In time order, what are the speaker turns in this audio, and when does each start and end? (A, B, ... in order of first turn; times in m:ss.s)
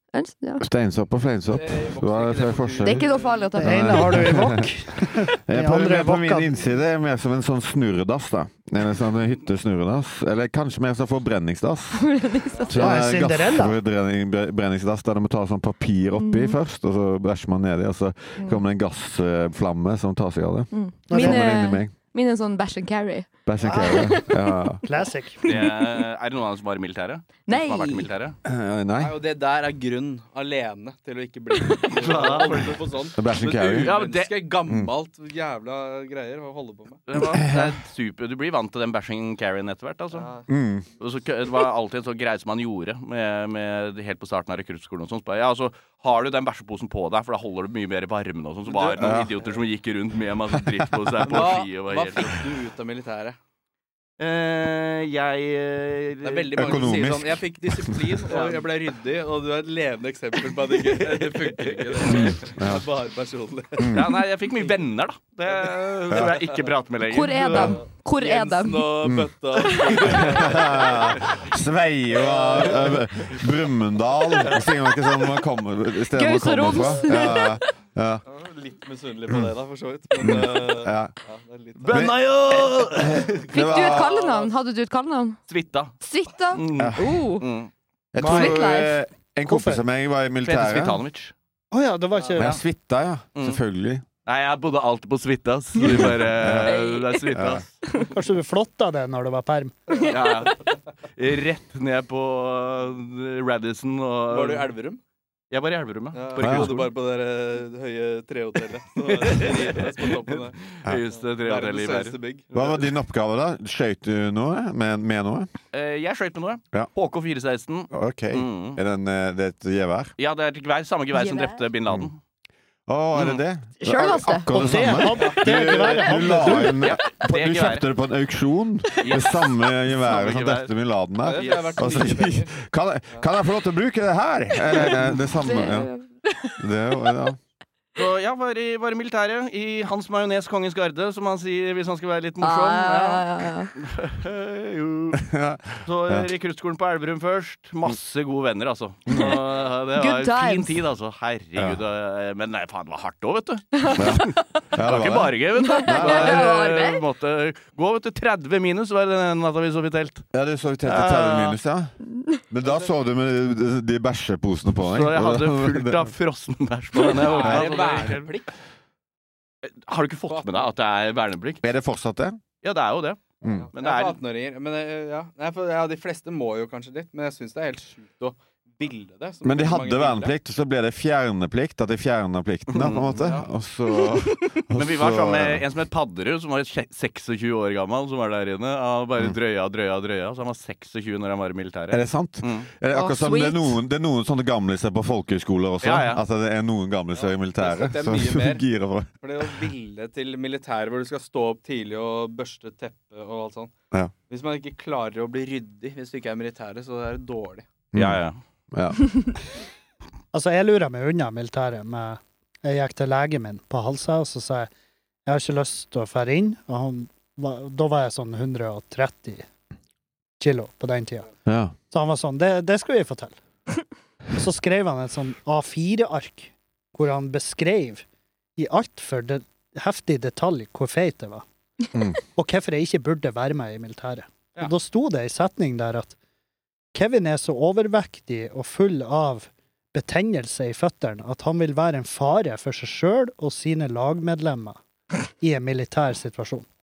0:00.1-0:00.6 A
0:00.6-0:12.1 B
0:01.5-0:03.5 C
0:02.8-0:04.3 A
0:03.6-0:06.6 D
0:11.9-0:13.0 A
0:12.7-0:21.9 B
0:12.7-0:13.8 D
0:16.2-0:16.6 A
0:20.7-0:24.4 A
0:21.1-0:21.6 D
0:23.4-0:24.8 B
0:24.8-0:25.4 D
0:25.4-0:26.1 A
0:25.4-0:28.4 E
0:27.4-0:28.1 A
0:28.4-0:29.2 B
0:28.9-0:37.0 C
0:31.5-0:31.9 A
0:32.0-0:32.9 E
0:33.2-0:33.9 B
0:33.7-0:34.5 E
0:34.6-0:34.9 B
0:37.1-0:40.3 E
0:37.1-0:37.7 B
0:40.1-0:40.5 C
0:40.5-0:40.9 B
0:41.0-0:52.3 E
0:48.7-0:49.6 C
0:49.0-0:49.3 B
0:50.6-0:51.6 B
0:51.2-0:53.4 C
0:54.2-0:56.9 E
0:56.2-1:04.8 C
0:56.6-0:58.2 B
0:58.3-0:58.7 E
1:00.8-1:02.3 E
1:02.0-1:02.8 B
1:03.8-1:04.1 B
1:03.9-1:07.7 E
1:05.5-1:06.7 C
1:06.1-1:06.4 B
1:07.0-1:09.0 A
1:07.3-1:11.4 C
1:09.0-1:09.3 B
1:09.5-1:10.0 A
1:09.9-1:18.2 B
1:12.1-1:13.4 C
1:16.1-1:17.6 A
1:16.8-1:17.1 C
1:18.3-1:22.1 C
1:20.2-1:21.1 B
1:21.8-1:23.7 E
1:21.9-1:24.1 B
1:23.1-1:24.5 C
1:23.5-1:25.4 A
1:25.5-1:25.9 E
1:26.0-1:27.5 A
1:26.5-1:27.7 E
1:26.8-1:27.1 B
1:28.1-1:31.0 B
1:28.2-1:28.7 D
1:28.2-1:29.0 A
1:29.4-1:29.8 D
1:30.4-1:31.3 E
1:31.7-1:32.6 D
1:32.3-1:34.0 B
1:34.2-1:37.6 E
1:35.8-1:36.8 B
1:36.6-1:37.3 A
1:37.3-1:37.6 B
1:38.1-1:39.8 D
1:40.1-1:40.6 E
1:41.2-1:44.7 E
1:44.3-1:45.0 C
1:45.5-1:46.9 E
1:46.1-1:50.6 C
1:46.4-1:46.8 B
1:49.1-1:52.2 E
1:51.1-1:52.8 C
1:52.5-1:55.5 B
1:55.7-1:58.8 E
1:57.9-2:00.1 B
2:00.2-2:02.2 E
2:01.1-2:01.6 A
2:02.9-2:15.9 B
2:03.1-2:03.4 E
2:03.8-2:05.0 A
2:04.5-2:06.8 D
2:05.5-2:05.9 E
2:06.5-2:07.8 E
2:09.0-2:09.3 E
2:09.9-2:10.7 E
2:11.2-2:12.5 C
2:11.3-2:11.9 E
2:15.3-2:16.6 A
2:16.6-2:17.4 B
2:18.0-2:25.2 E
2:22.4-2:23.7 A
2:25.1-2:26.3 B
2:25.8-2:40.2 E
2:29.1-2:29.4 B
2:29.1-2:29.4 A
2:30.0-2:30.8 A
2:31.6-2:31.8 B
2:33.7-2:34.6 A
2:33.9-2:36.5 B
2:35.6-2:37.0 A
2:40.3-2:41.9 B
2:40.8-2:41.6 E
2:42.5-2:46.1 B
2:44.9-2:48.3 E
2:47.0-2:48.4 C
2:47.4-2:47.7 B
2:49.7-2:51.6 E
2:50.3-2:50.7 C
2:51.6-2:52.4 B
2:52.6-2:53.2 E
2:53.4-2:53.7 B
2:53.4-3:00.3 C
2:53.7-2:54.2 E
2:59.4-3:05.6 B
3:02.7-3:03.2 E
3:03.2-3:03.5 C
3:04.7-3:12.7 E
3:11.9-3:19.6 B
3:12.9-3:13.8 A
3:15.8-3:16.2 E
3:17.1-3:18.6 C
3:19.2-3:23.7 C
3:24.3-3:27.6 C
3:27.9-3:29.0 B
3:27.9-3:28.4 E
3:30.3-3:34.7 D
3:35.2-3:39.5 D
3:40.4-3:41.3 D
3:41.4-3:41.7 B
3:41.9-3:43.4 D
3:44.4-3:48.0 D
3:48.6-3:51.4 D
3:52.3-3:56.2 D
3:56.9-4:04.8 D
4:05.4-4:06.6 D